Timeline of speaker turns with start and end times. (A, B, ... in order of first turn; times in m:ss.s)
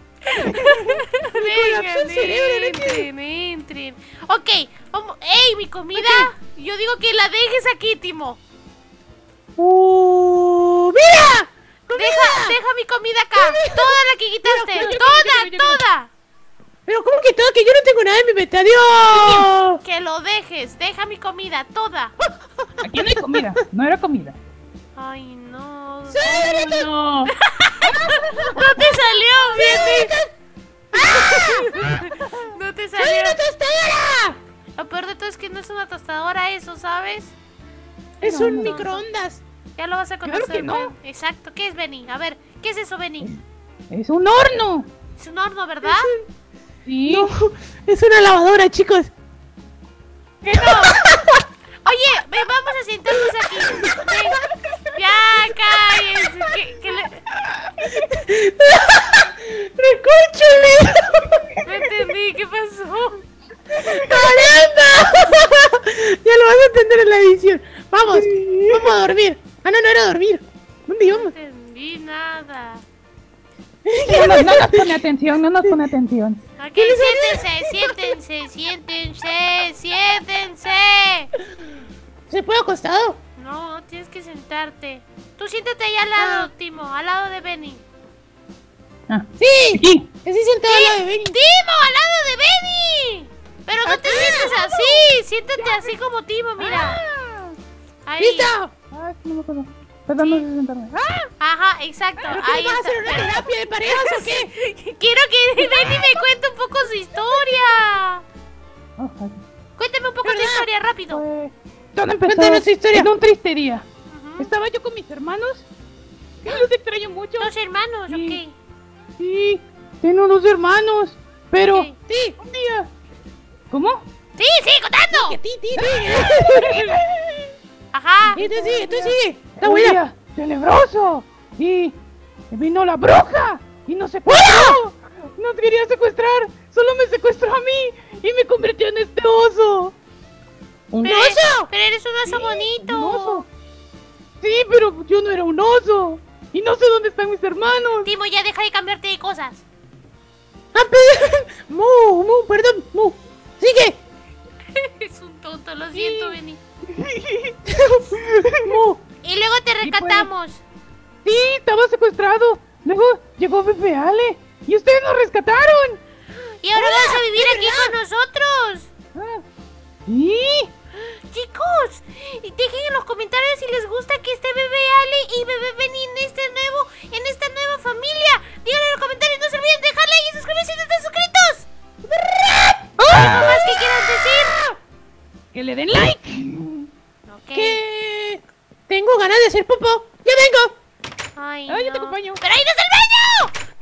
0:00.3-0:08.4 A
0:00.4-0:00.9 B
0:01.3-0:03.1 C
0:05.9-0:06.3 C
0:09.6-0:12.6 C
0:11.9-0:16.1 A
0:13.4-0:15.0 C
0:14.8-0:15.8 B
0:16.9-0:19.8 C
0:19.1-0:19.5 B
0:19.8-0:22.2 A
0:22.5-0:22.8 C
0:22.8-0:24.4 B
0:25.0-0:26.3 A
0:26.1-0:26.9 C
0:26.3-0:27.3 B
0:27.3-0:30.1 A
0:28.1-0:28.9 C
0:29.5-0:30.3 C
0:30.9-0:31.8 C
0:31.0-0:33.4 A
0:33.0-0:34.4 C
0:34.8-0:37.3 A
0:38.2-0:38.8 B
0:38.2-0:39.4 C
0:38.3-0:39.1 A
0:39.8-0:43.3 A
0:40.2-0:41.0 B
0:43.9-0:44.9 B
0:45.2-0:46.1 A
0:45.8-0:46.2 C
0:46.9-0:47.3 B
0:47.1-0:49.1 C
0:50.4-0:51.0 B
0:50.6-0:51.4 C
0:51.8-0:57.2 A
0:53.7-0:54.1 C
0:57.8-1:01.5 C
1:01.6-1:03.2 A
1:03.7-1:11.3 C
1:03.8-1:04.4 B
1:08.1-1:09.0 B
1:11.0-1:12.8 A
1:13.9-1:14.9 C
1:14.0-1:16.4 B
1:16.6-1:21.3 A
1:16.8-1:18.2 C
1:22.3-1:23.2 C
1:23.4-1:27.8 A
1:26.2-1:26.5 C
1:29.1-1:30.1 B
1:29.4-1:31.4 C
1:30.7-1:37.0 A
1:33.8-1:34.6 C
1:34.3-1:35.0 B
1:35.6-1:35.9 B
1:36.6-1:37.6 B
1:38.1-1:38.5 A
1:38.2-1:38.7 C
1:38.9-1:41.3 B
1:40.2-1:40.5 A
1:41.4-1:48.2 A
1:42.3-1:44.5 C
1:49.0-1:49.4 B
1:49.8-1:51.2 A
1:50.2-1:50.7 C
1:51.1-1:53.8 B
1:52.2-1:53.1 C
1:54.1-1:54.5 A
1:54.4-1:55.7 B
1:56.4-1:57.5 B
1:57.4-1:58.6 A
1:58.1-1:58.4 B
1:59.2-2:02.9 B
2:01.6-2:02.0 A
2:02.1-2:02.4 C
2:03.7-2:04.0 B
2:04.4-2:05.4 A
2:05.1-2:07.0 C
2:05.8-2:07.5 B
2:07.9-2:08.4 A
2:08.2-2:12.0 B
2:08.4-2:10.0 C
2:12.5-2:19.9 B
2:14.3-2:14.8 C
2:21.0-2:21.7 C
2:21.0-2:23.4 A
2:22.2-2:23.5 B
2:24.4-2:28.1 B
2:28.0-2:29.6 A
2:30.7-2:34.0 C
2:34.8-2:36.6 A
2:35.9-2:36.4 B
2:36.9-2:38.8 B
2:38.6-2:39.0 C
2:39.2-2:40.6 A
2:39.8-2:40.3 B
2:41.2-2:46.0 B
2:46.6-2:48.9 A
2:46.8-2:48.0 C
2:49.2-2:49.4 B
2:50.1-2:50.7 B
2:50.9-3:01.7 A
3:02.2-3:02.8 C
3:03.0-3:03.6 B
3:03.1-3:04.6 A
3:05.5-3:06.9 B
3:07.2-3:07.8 A
3:07.5-3:10.7 C
3:11.4-3:13.5 A
3:11.7-3:12.4 B